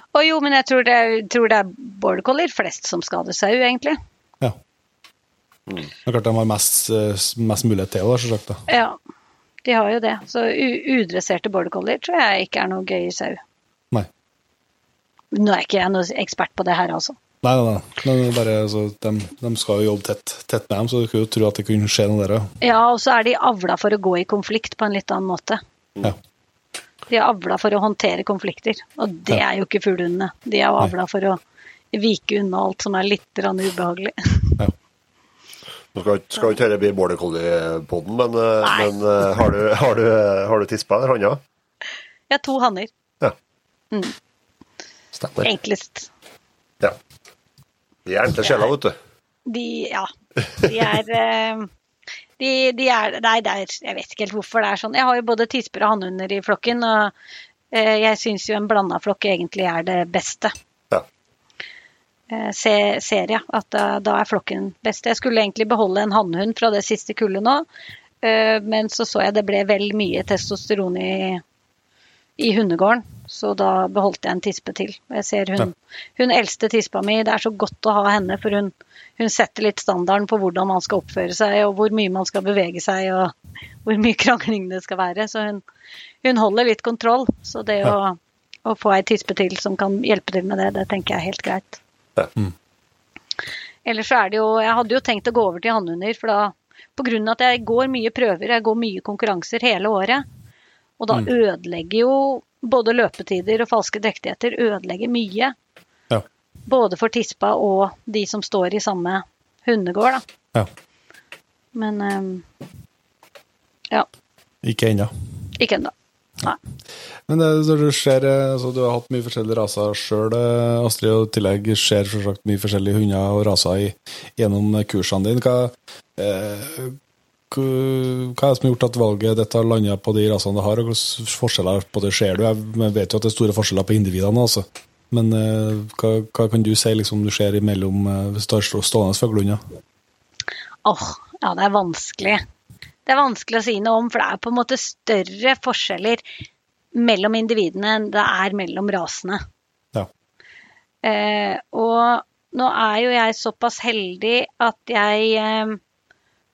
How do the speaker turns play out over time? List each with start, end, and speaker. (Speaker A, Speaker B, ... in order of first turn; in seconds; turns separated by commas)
Speaker A: 0.1-4.0, Speaker B: 6.0-8.6, Speaker A: 8.7-9.0, Speaker A: 9.6-13.4, Speaker A: 15.3-17.2, Speaker B: 17.4-22.5, Speaker A: 22.6-25.6, Speaker A: 27.1-31.4, Speaker A: 31.9-34.6, Speaker C: 35.9-41.4, Speaker A: 38.6-38.9, Speaker A: 42.3-42.9, Speaker C: 45.1-45.5, Speaker A: 45.4-46.1, Speaker C: 48.1-49.0, Speaker A: 49.5-51.7, Speaker A: 52.4-57.1, Speaker A: 57.7-60.5, Speaker A: 62.3-67.7, Speaker A: 68.2-71.4, Speaker A: 72.4-83.3, Speaker A: 83.8-85.6, Speaker A: 86.2-91.8, Speaker A: 93.8-100.2, Speaker A: 101.0-105.5, Speaker A: 106.7-110.2, Speaker A: 111.8-112.5, Speaker B: 114.6-115.1, Speaker A: 115.6-116.6, Speaker B: 117.3-127.0, Speaker B: 127.5-139.6, Speaker A: 140.8-142.4, Speaker A: 143.1-146.2, Speaker A: 146.9-149.4, Speaker A: 151.0-155.8